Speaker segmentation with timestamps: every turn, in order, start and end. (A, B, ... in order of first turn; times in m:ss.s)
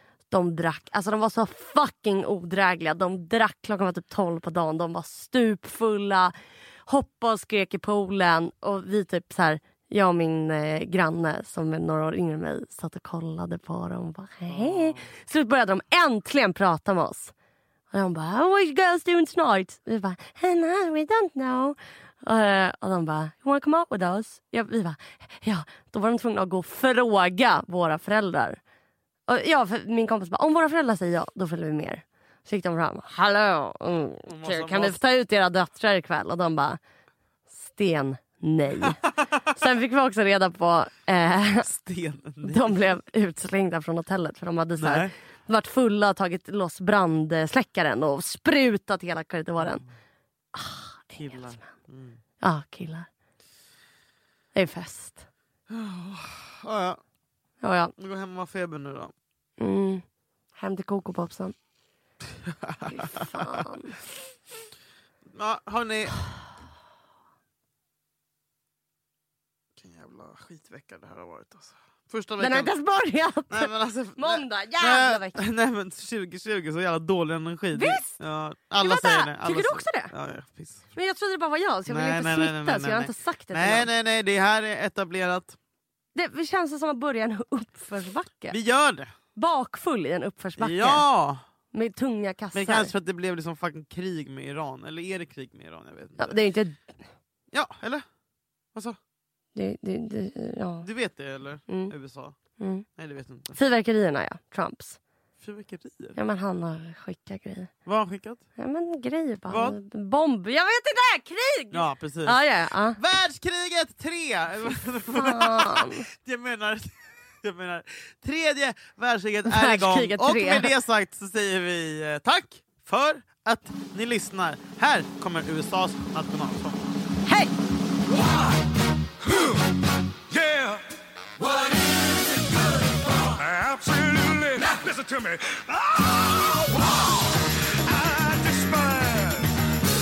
0:00.3-0:06.3 A
0:06.9-0:17.3 A
0:14.5-0:15.1 B
0:17.9-0:28.6 A
0:29.3-0:36.8 A
0:34.3-0:35.0 B
0:37.5-0:41.7 A
0:41.6-0:42.8 B
0:42.4-0:49.8 A
0:44.8-0:45.1 B
0:49.6-0:49.9 B
0:50.5-0:51.7 A
0:51.1-0:52.2 B
0:52.4-0:53.1 A
0:54.6-0:55.2 A
0:55.7-0:57.0 B
0:57.6-0:57.9 A
0:58.0-0:59.1 B
0:59.6-1:00.0 A
1:00.6-1:01.6 A
1:02.5-1:03.7 B
1:02.9-1:04.0 A
1:05.4-1:06.2 B
1:09.8-1:12.7 B
1:12.4-1:15.4 A
1:13.5-1:20.9 B
1:17.7-1:18.1 A
1:18.8-1:20.1 A
1:21.0-1:23.9 A
1:21.9-1:25.6 B
1:26.2-1:28.6 A
1:28.5-1:29.1 B
1:29.4-1:31.0 A
1:30.6-1:31.4 B
1:31.7-1:32.9 A
1:32.5-1:36.4 B
1:36.2-1:37.0 A
1:37.5-1:38.0 B
1:39.6-1:40.9 A
1:40.8-1:42.4 B
1:42.6-1:42.8 A
1:43.0-1:43.6 B
1:43.6-1:45.0 A
1:45.4-1:46.2 B
1:46.2-1:47.7 A
1:47.9-1:48.4 B
1:48.6-1:53.0 A
1:49.5-1:49.8 B
1:51.7-1:52.4 B
1:53.0-2:06.8 B
1:55.2-1:56.1 A
1:59.5-2:00.7 A
2:07.3-2:07.5 A
2:10.3-2:10.8 C
2:12.4-2:17.2 C
2:17.8-2:19.6 C